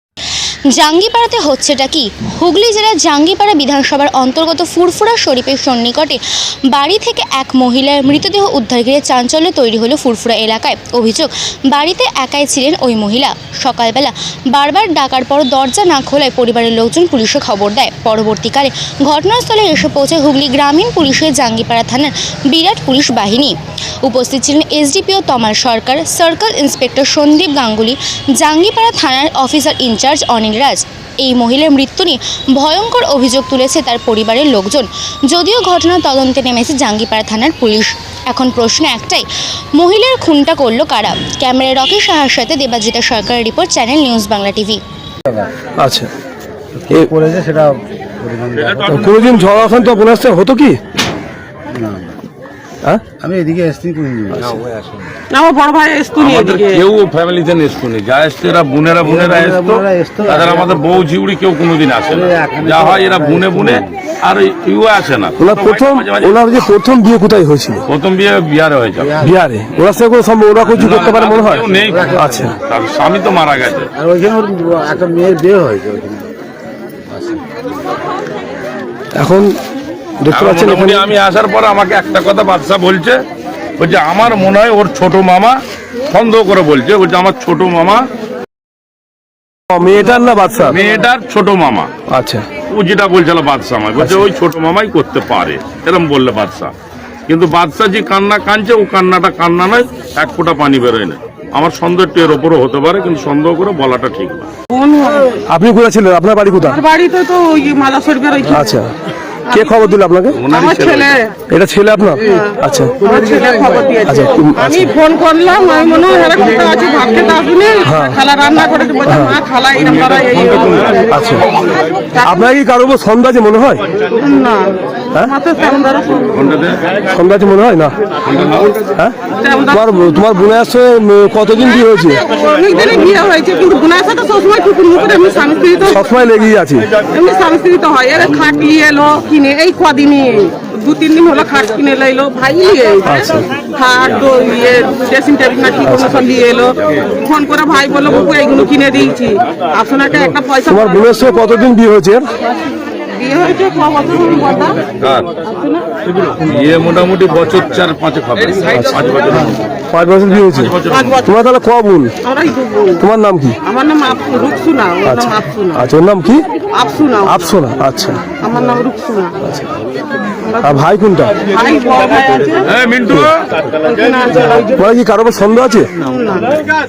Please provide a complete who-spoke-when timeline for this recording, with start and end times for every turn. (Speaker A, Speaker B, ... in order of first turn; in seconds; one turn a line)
Speaker A: 0.7-6.2
Speaker A: 6.7-39.2
Speaker A: 39.8-44.8
Speaker B: 45.8-46.1
Speaker C: 46.8-48.8
Speaker D: 48.6-49.4
Speaker B: 48.9-50.8
Speaker C: 51.7-52.1
Speaker C: 53.2-55.1
Speaker E: 55.3-56.8
Speaker D: 56.2-66.3
Speaker C: 59.0-60.9
Speaker C: 62.1-63.9
Speaker B: 65.4-67.8
Speaker D: 67.9-69.2
Speaker C: 69.0-69.3
Speaker B: 69.2-72.5
Speaker D: 70.7-73.9
Speaker C: 71.8-72.4
Speaker C: 73.9-76.3
Speaker C: 77.1-77.4
Speaker B: 79.1-79.5
Speaker B: 80.2-81.1
Speaker D: 80.3-83.2
Speaker D: 83.8-85.6
Speaker D: 86.1-88.0
Speaker B: 89.7-90.8
Speaker D: 90.7-91.9
Speaker B: 92.1-92.4
Speaker D: 92.7-96.7
Speaker B: 94.0-94.2
Speaker D: 97.3-104.5
Speaker E: 104.7-105.4
Speaker B: 105.5-106.8
Speaker E: 106.7-108.7
Speaker B: 108.5-108.9
Speaker E: 109.5-109.8
Speaker B: 109.5-110.4
Speaker D: 110.4-111.1
Speaker E: 110.5-111.3
Speaker B: 111.5-113.0
Speaker E: 112.2-121.1
Speaker B: 114.1-114.9
Speaker B: 117.8-118.2
Speaker B: 119.0-119.4
Speaker D: 119.8-121.0
Speaker B: 121.1-121.5
Speaker E: 122.1-122.5
Speaker B: 122.2-123.8
Speaker E: 124.1-126.5
Speaker D: 126.3-126.8
Speaker B: 127.1-127.9
Speaker D: 128.2-128.8
Speaker E: 129.4-129.8
Speaker B: 129.7-132.2
Speaker E: 132.2-136.0
Speaker B: 135.8-136.9
Speaker E: 137.0-151.1
Speaker B: 143.0-143.5
Speaker B: 145.8-146.2
Speaker B: 150.7-152.2
Speaker E: 153.1-154.8
Speaker D: 155.0-155.3
Speaker E: 155.4-155.9
Speaker D: 156.1-159.6
Speaker B: 159.9-162.1
Speaker D: 160.4-161.2
Speaker E: 160.9-161.2
Speaker E: 162.2-163.0
Speaker B: 163.0-163.6
Speaker E: 163.7-165.8
Speaker B: 165.0-166.4
Speaker E: 166.7-167.5
Speaker B: 167.2-168.2
Speaker E: 168.2-169.4
Speaker B: 169.4-169.7
Speaker E: 170.4-170.8
Speaker B: 170.6-171.4
Speaker E: 171.4-172.7
Speaker D: 172.7-173.6
Speaker E: 173.8-174.7
Speaker B: 174.7-175.9
Speaker E: 176.0-176.7